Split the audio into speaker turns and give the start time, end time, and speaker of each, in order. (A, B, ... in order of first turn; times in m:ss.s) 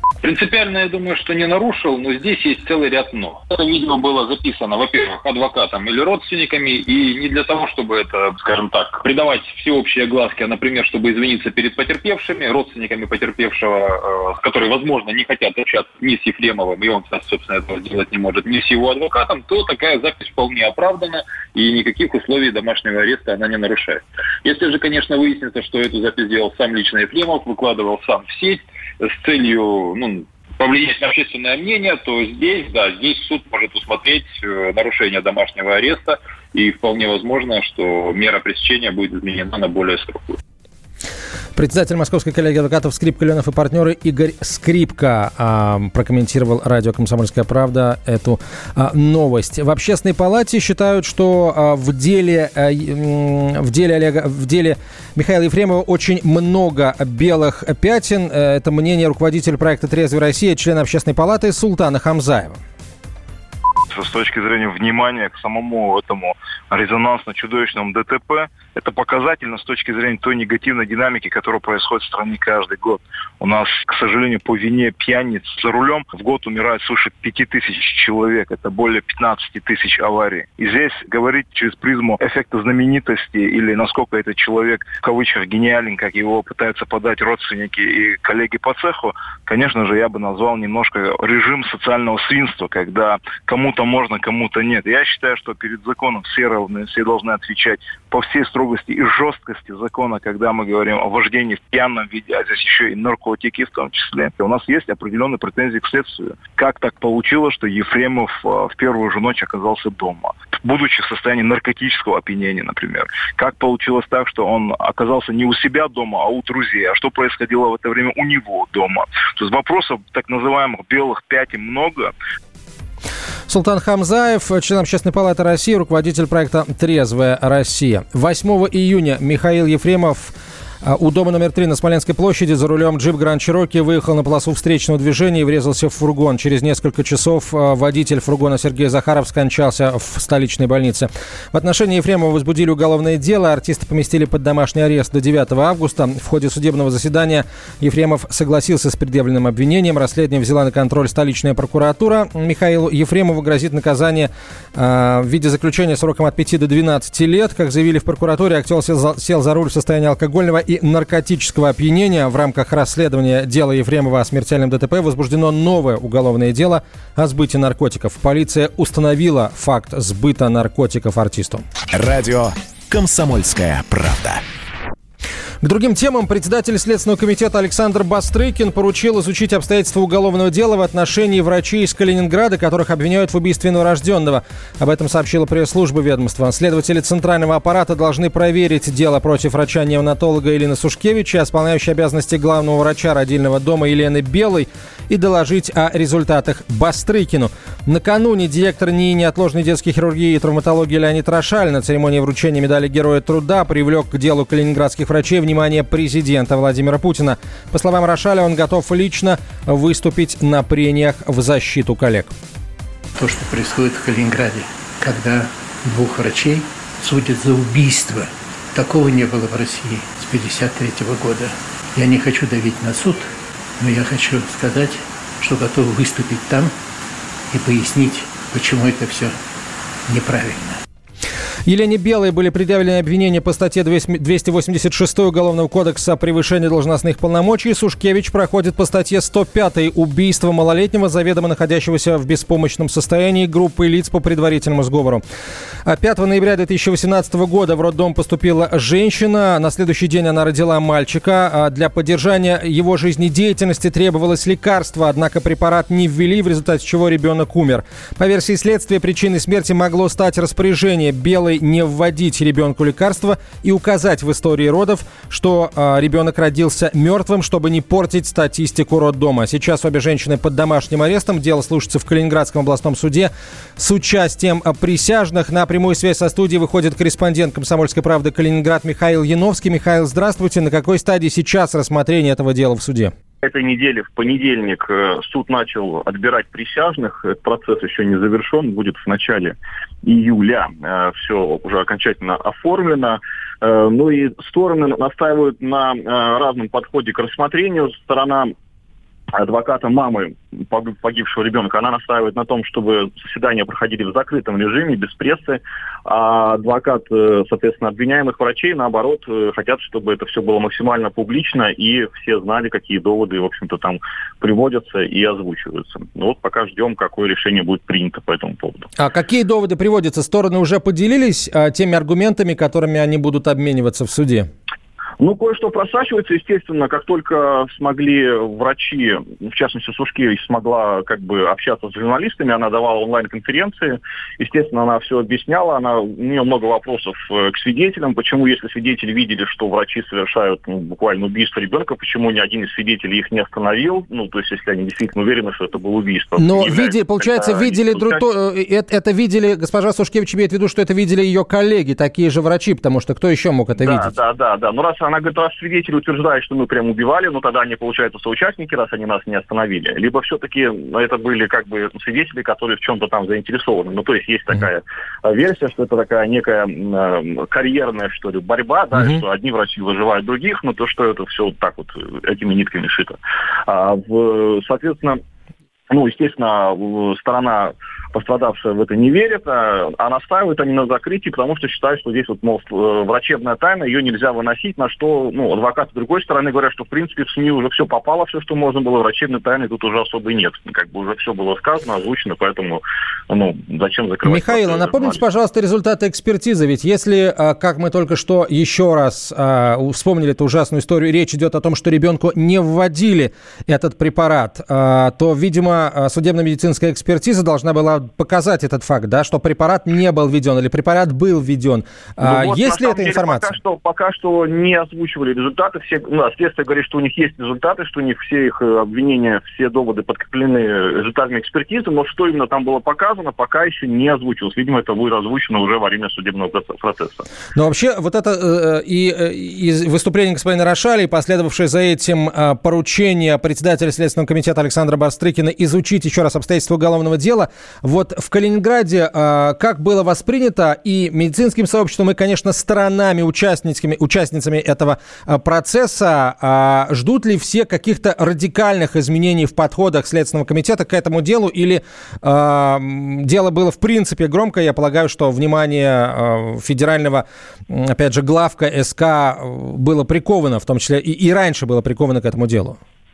0:00.2-0:40.4 A
0:41.6-1:02.6 B
1:03.9-2:02.1 C
2:03.5-2:51.6 B
2:51.9-2:54.4 D
2:55.6-3:32.3 B
3:33.2-3:46.7 E
3:47.5-3:49.4 E
3:50.1-3:50.8 E
3:51.7-4:05.2 B
4:05.8-4:43.1 B
4:43.4-4:58.5 F
4:59.3-5:18.9 F
5:19.0-5:24.5 B
5:25.2-5:48.2 F
5:46.4-5:54.1 B
5:53.8-6:15.2 F
6:09.0-6:09.2 B
6:15.9-6:35.2 F
6:34.2-6:53.5 B
6:52.2-7:07.2 F
7:07.6-7:42.8 B